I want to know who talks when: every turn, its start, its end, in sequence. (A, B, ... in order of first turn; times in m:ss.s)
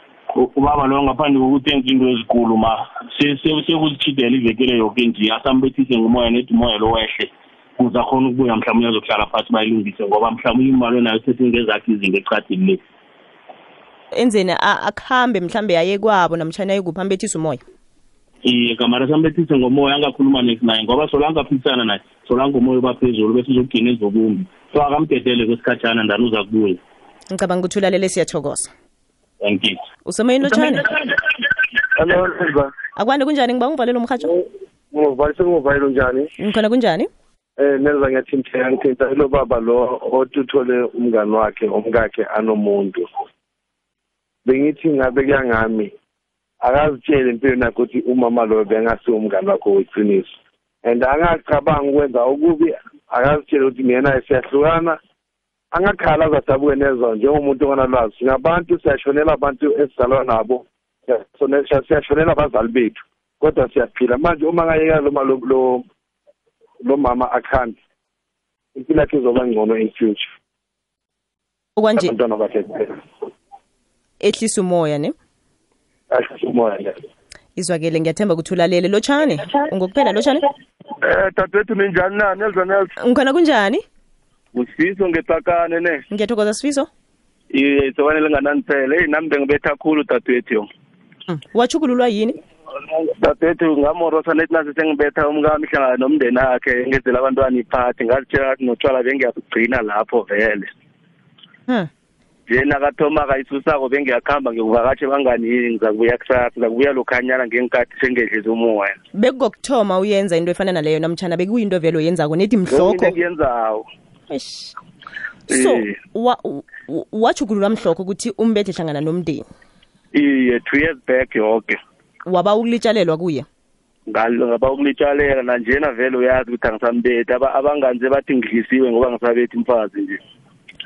0:00.3-0:12.8 A
0:14.1-0:17.6 B
0:18.4-0:26.8 A
0:27.3-0:28.7 B
0:29.4-0:29.8 A
0:30.0-0:30.9 B
0:32.0-0:32.7 C
0:33.0-0:34.3 B
0:34.9-0:36.3 C
0:36.4-0:37.1 B
0:37.6-0:43.1 C
0:44.5-0:45.9 C
0:46.6-0:50.3 C
0:50.8-0:55.0 C
0:55.7-1:05.8 C
1:06.8-1:07.8 C
1:08.8-1:10.3 C
1:11.8-1:12.1 B
1:12.0-1:13.0 C
1:14.2-1:15.2 B
1:16.1-1:17.0 C
1:17.6-1:20.5 B
1:21.0-1:22.9 D
1:23.0-1:23.8 B
1:24.5-1:26.0 D
1:26.1-1:26.9 B
1:27.5-1:30.7 D
1:31.3-1:32.4 B
1:33.1-1:40.7 D
1:42.5-1:49.0 D
1:49.1-1:53.2 B
1:52.7-1:53.8 D
1:54.3-1:54.8 B
1:55.5-1:59.5 B
1:55.5-1:55.9 D
2:00.1-2:01.8 D
2:02.3-2:03.5 B
2:04.1-2:10.2 D